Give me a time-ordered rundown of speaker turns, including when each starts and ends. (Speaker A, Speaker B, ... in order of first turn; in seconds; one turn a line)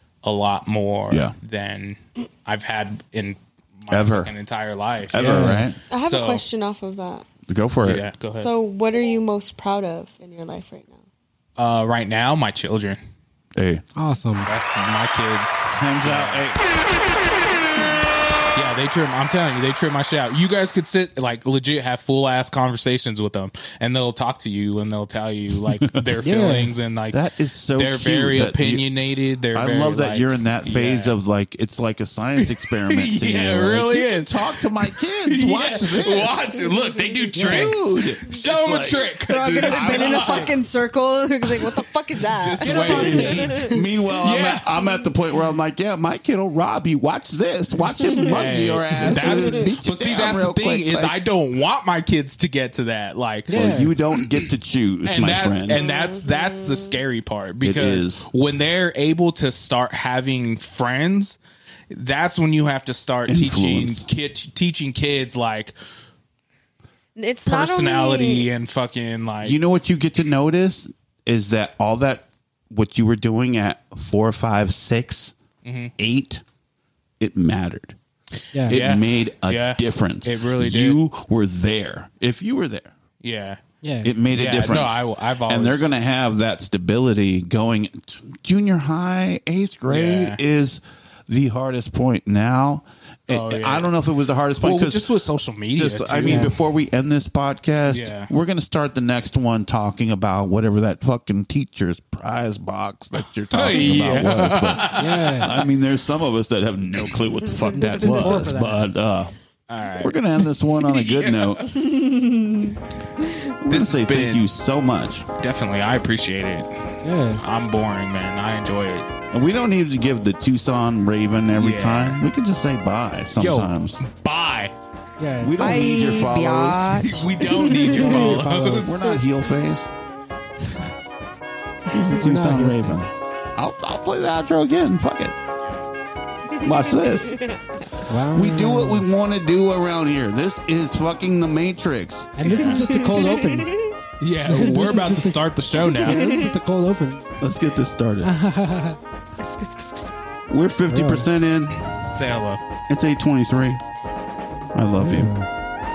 Speaker A: 0.2-6.5
Speaker B: 3.9-4.3
Speaker B: 5.1-5.8
Speaker C: 5.2-5.7
Speaker D: 5.9-7.5
Speaker B: 7.5-8.1
Speaker A: 7.8-8.5
Speaker D: 8.3-11.0
Speaker A: 11.6-13.0
Speaker B: 13.6-13.8
Speaker C: 13.9-14.5
Speaker A: 14.4-16.5
Speaker B: 15.7-16.6
Speaker A: 18.5-27.2
Speaker B: 25.7-26.1
Speaker C: 26.2-26.7
Speaker B: 27.1-28.9
Speaker A: 27.7-31.2
Speaker B: 29.5-36.4
Speaker A: 32.4-40.5
Speaker C: 37.3-37.9
Speaker B: 37.4-39.0
Speaker D: 39.2-43.7
Speaker B: 39.6-40.5
Speaker A: 41.5-43.6
Speaker C: 42.6-43.8
Speaker B: 42.9-51.2
Speaker A: 44.2-44.7
Speaker A: 48.2-53.6
Speaker C: 53.5-53.9
Speaker B: 53.5-55.8
Speaker A: 55.0-61.4
Speaker D: 55.7-56.9
Speaker B: 57.6-58.2
Speaker A: 61.9-65.8
Speaker B: 63.3-64.0
Speaker D: 67.2-68.5
Speaker A: 67.5-69.6
Speaker B: 69.4-75.3
Speaker A: 75.6-75.9
Speaker B: 76.0-76.4
Speaker B: 77.2-78.0
Speaker C: 78.5-78.8
Speaker A: 78.6-81.0
Speaker B: 78.7-82.9
Speaker A: 83.2-83.6
Speaker C: 83.8-84.1
Speaker B: 84.0-95.1
Speaker A: 84.3-85.9
Speaker A: 89.9-90.4
Speaker A: 93.3-94.0
Speaker A: 94.5-96.5
Speaker B: 95.7-109.3
Speaker C: 96.2-96.5
Speaker A: 97.9-98.3
Speaker A: 103.5-105.7
Speaker C: 104.9-105.5
Speaker C: 107.7-108.9
Speaker A: 109.7-112.1
Speaker B: 110.0-111.7
Speaker D: 112.2-112.6
Speaker B: 113.6-115.3
Speaker A: 113.7-114.5
Speaker A: 115.4-119.1
Speaker C: 117.0-117.4
Speaker B: 119.3-124.0
Speaker A: 121.6-122.2
Speaker A: 123.4-124.7
Speaker C: 125.2-125.5
Speaker B: 125.4-127.2
Speaker D: 125.5-128.2
Speaker A: 127.0-129.0
Speaker C: 127.7-128.9
Speaker B: 128.1-129.9
Speaker B: 131.9-135.3
Speaker C: 132.1-133.0
Speaker D: 136.5-137.6
Speaker B: 136.6-137.4
Speaker C: 138.1-139.1
Speaker B: 138.2-142.8
Speaker C: 142.4-143.8
Speaker A: 142.5-142.8
Speaker D: 142.8-144.0
Speaker A: 144.2-146.2
Speaker C: 144.5-147.3
Speaker D: 145.8-146.5
Speaker B: 147.4-148.3
Speaker C: 148.2-149.0
Speaker D: 149.4-150.1
Speaker B: 150.5-151.9
Speaker C: 150.9-151.3
Speaker A: 152.1-152.6
Speaker B: 152.9-153.8
Speaker B: 154.7-155.3
Speaker C: 154.9-155.5